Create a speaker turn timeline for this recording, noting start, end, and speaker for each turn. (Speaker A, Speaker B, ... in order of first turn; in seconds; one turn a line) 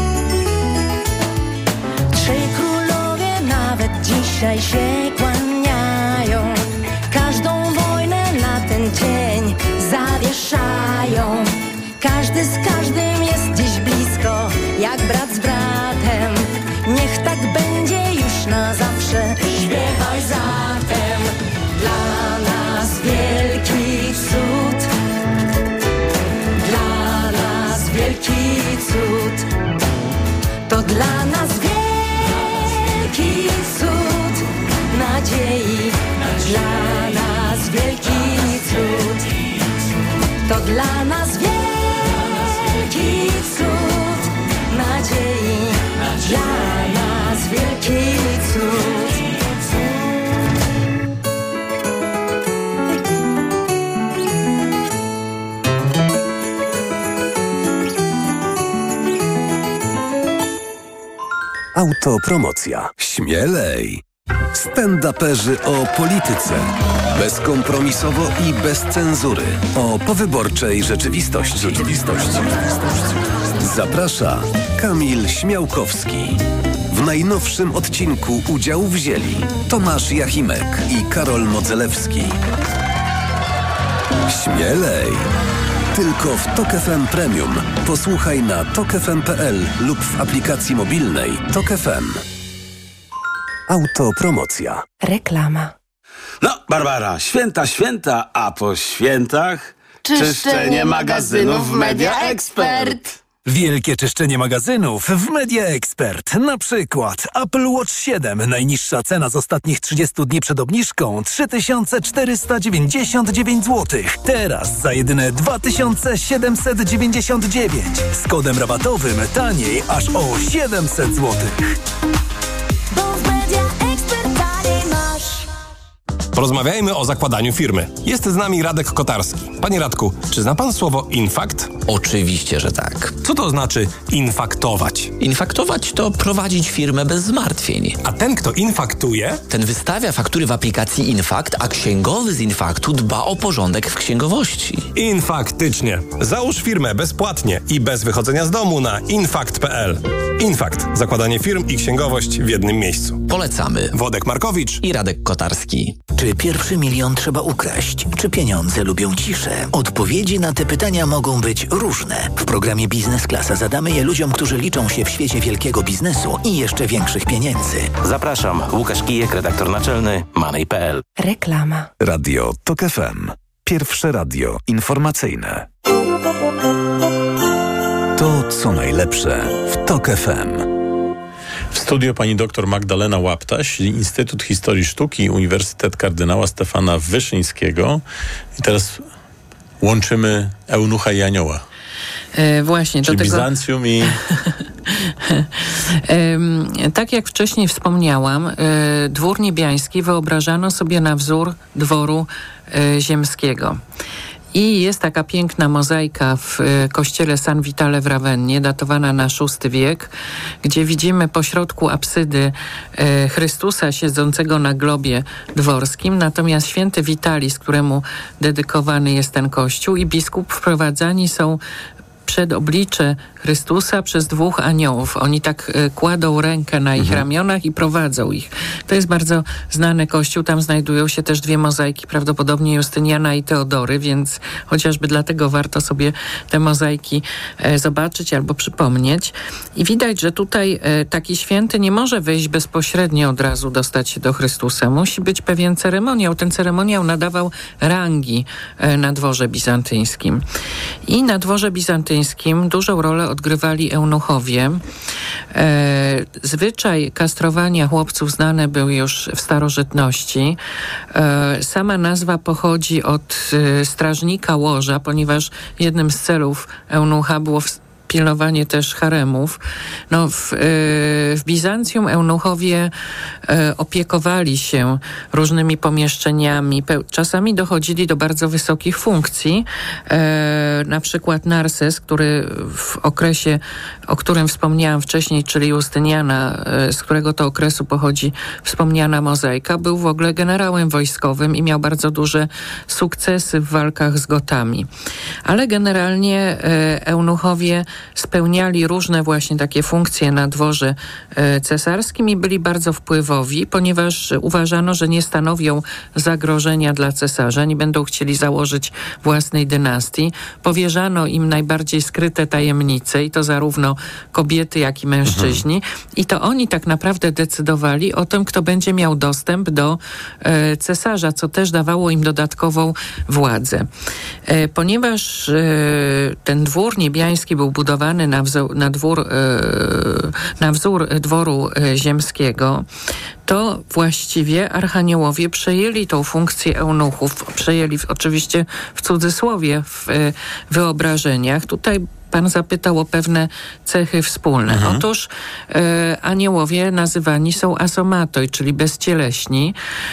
Speaker A: 2.1-24.9
Speaker A: 26.6-29.5
Speaker A: 30.7-39.4
Speaker A: 40.4-49.3
Speaker B: 61.7-64.0
Speaker B: 64.5-82.4
Speaker B: 84.3-85.2
Speaker B: 85.9-92.2
Speaker B: 93.7-94.8
Speaker C: 96.4-103.1
Speaker A: 100.0-103.0
Speaker D: 103.5-121.7
Speaker A: 122.9-125.5
Speaker E: 126.3-131.8
Speaker F: 131.8-133.1
Speaker E: 133.2-135.1
Speaker F: 135.2-138.0
Speaker E: 138.0-139.4
Speaker F: 139.5-144.9
Speaker E: 144.9-153.2
Speaker F: 153.3-153.9
Speaker E: 153.9-154.8
Speaker F: 154.8-156.0
Speaker G: 156.1-167.9
Speaker H: 168.0-171.0
Speaker B: 172.0-175.7
Speaker B: 178.1-180.7
Speaker I: 181.7-188.0
Speaker I: 188.6-189.0
Speaker I: 189.8-191.6
Speaker J: 192.3-193.5
Speaker I: 193.1-194.2
Speaker J: 196.1-203.8
Speaker J: 204.5-210.1
Speaker J: 210.6-221.6
Speaker J: 222.2-250.4
Speaker I: 227.0-227.2
Speaker J: 251.1-254.8
Speaker J: 255.5-260.6
Speaker J: 261.1-269.6
Speaker J: 270.1-272.9
Speaker J: 273.5-294.9
Speaker J: 295.4-323.9
Speaker I: 315.2-315.6
Speaker J: 324.5-332.8
Speaker J: 333.4-349.7
Speaker I: 344.7-345.0